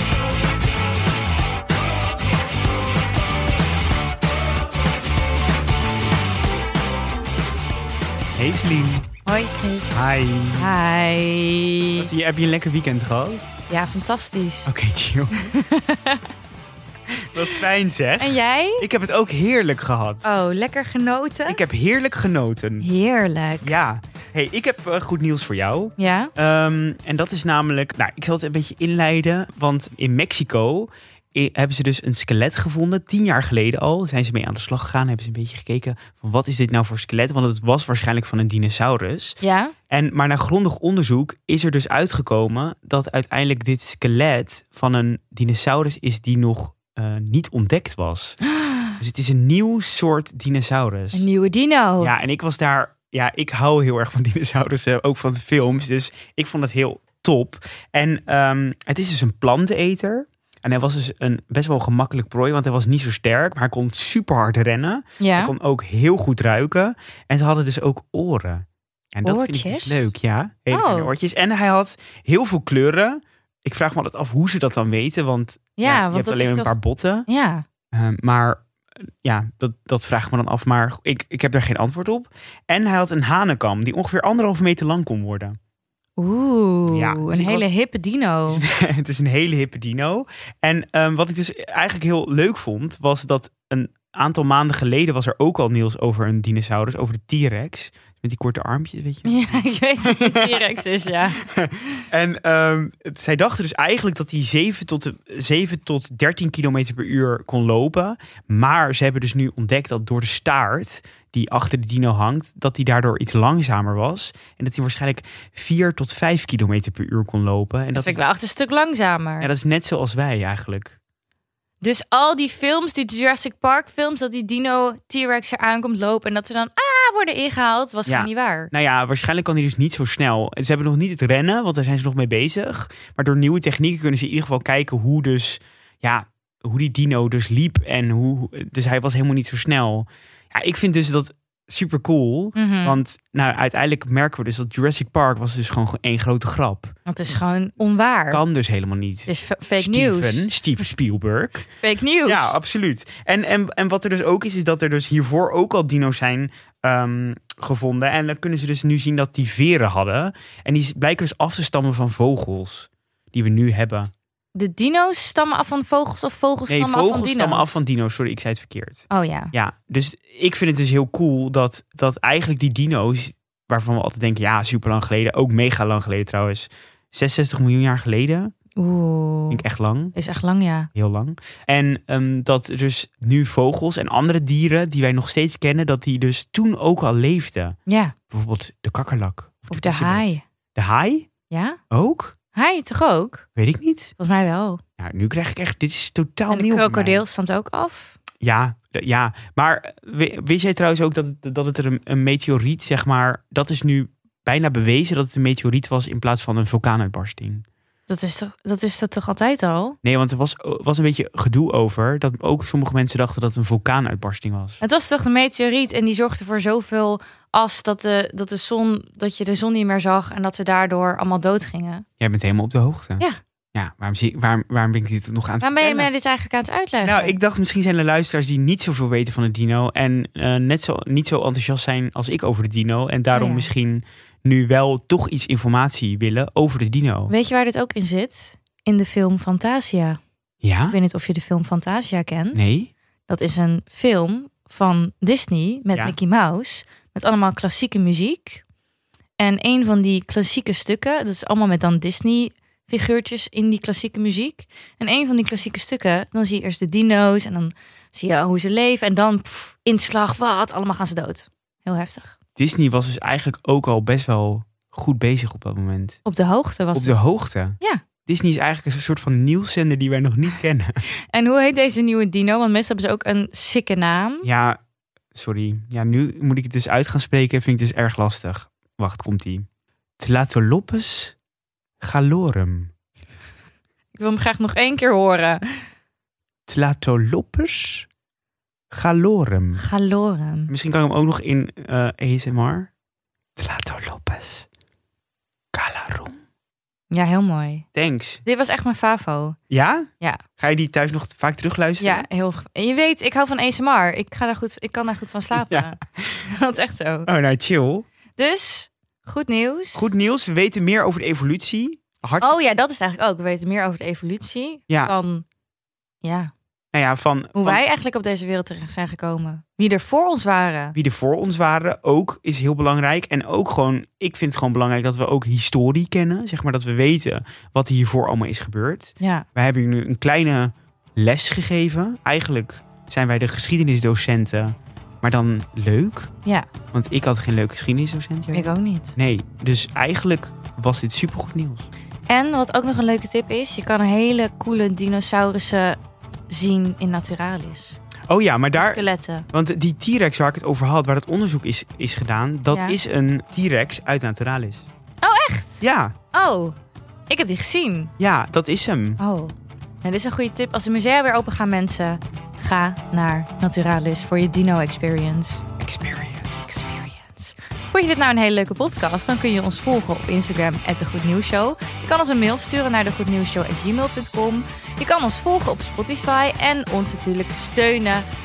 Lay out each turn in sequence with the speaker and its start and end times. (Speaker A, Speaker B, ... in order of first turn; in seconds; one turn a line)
Speaker A: 8.4-9.1
Speaker B: 9.3-10.0
Speaker A: 9.9-10.8
Speaker B: 10.6-12.1
Speaker A: 12.0-13.5
Speaker B: 13.7-14.7
Speaker A: 14.7-15.5
Speaker B: 15.4-16.2
Speaker A: 17.3-20.3
Speaker B: 18.2-18.9
Speaker B: 20.2-21.6
Speaker A: 21.5-22.9
Speaker B: 22.8-23.7
Speaker A: 23.6-39.4
Speaker B: 26.0-26.3
Speaker B: 39.4-39.7
Speaker A: 39.9-48.4
Speaker B: 48.6-49.0
Speaker A: 49.0-51.3
Speaker B: 51.1-52.1
Speaker A: 52.0-77.3
Speaker B: 65.2-65.5
Speaker B: 69.2-70.1
Speaker B: 70.7-71.1
Speaker B: 75.8-76.7
Speaker B: 77.3-77.6
Speaker A: 77.9-78.6
Speaker A: 79.2-85.6
Speaker B: 86.2-88.6
Speaker A: 86.9-87.7
Speaker A: 88.5-118.2
Speaker B: 99.2-101.4
Speaker B: 118.0-119.5
Speaker A: 119.4-121.0
Speaker B: 121.8-128.7
Speaker A: 128.1-146.9
Speaker B: 142.6-143.0
Speaker B: 147.1-148.4
Speaker A: 148.3-151.7
Speaker B: 149.3-150.5
Speaker B: 151.8-152.6
Speaker A: 152.2-164.1
Speaker B: 164.6-167.8
Speaker A: 166.7-178.5
Speaker B: 169.1-169.5
Speaker B: 178.8-179.6
Speaker A: 179.5-180.2
Speaker B: 180.2-180.9
Speaker A: 180.9-187.8
Speaker B: 187.9-188.2
Speaker A: 188.3-191.3
Speaker B: 189.7-190.4
Speaker B: 191.5-191.8
Speaker A: 191.9-192.3
Speaker B: 192.5-193.5
Speaker A: 193.6-194.1
Speaker B: 194.2-194.8
Speaker A: 195.0-197.2
Speaker B: 196.5-198.2
Speaker A: 198.4-207.7
Speaker B: 208.1-210.0
Speaker A: 210.0-214.8
Speaker B: 214.8-222.1
Speaker A: 222.2-226.1
Speaker B: 225.6-227.4
Speaker A: 227.0-237.3
Speaker B: 233.3-233.7
Speaker B: 237.3-240.2
Speaker A: 240.6-241.0
Speaker B: 240.9-242.7
Speaker A: 242.5-242.9
Speaker B: 243.3-248.6
Speaker B: 249.4-262.4
Speaker A: 262.6-266.2
Speaker B: 266.2-267.2
Speaker A: 266.9-271.0
Speaker B: 271.3-274.5
Speaker A: 274.4-274.8
Speaker A: 275.3-279.7
Speaker A: 280.2-281.4
Speaker A: 282.0-282.9
Speaker B: 284.1-285.8
Speaker A: 286.7-288.1
Speaker A: 288.9-289.8
Speaker B: 289.8-290.7
Speaker A: 290.7-292.9
Speaker A: 293.6-294.7
Speaker A: 295.7-296.4
Speaker B: 297.1-297.9
Speaker A: 297.9-298.4
Speaker B: 298.4-299.6
Speaker A: 299.7-302.3
Speaker B: 302.0-307.3
Speaker A: 305.5-306.4
Speaker A: 307.3-308.1
Speaker B: 308.4-310.1
Speaker A: 309.9-312.6
Speaker B: 312.4-315.4
Speaker B: 316.2-316.5
Speaker A: 316.9-317.8
Speaker B: 317.6-321.0
Speaker A: 321.0-336.3
Speaker B: 329.2-329.5
Speaker A: 336.9-341.9
Speaker B: 338.5-339.1
Speaker B: 342.3-346.0
Speaker B: 346.5-348.0
Speaker A: 348.3-354.9
Speaker B: 348.8-349.5
Speaker B: 352.7-353.0
Speaker B: 355.2-356.8
Speaker A: 355.8-356.1
Speaker B: 357.3-358.1
Speaker A: 358.2-359.2
Speaker B: 359.2-365.6
Speaker A: 365.8-366.5
Speaker B: 366.6-378.3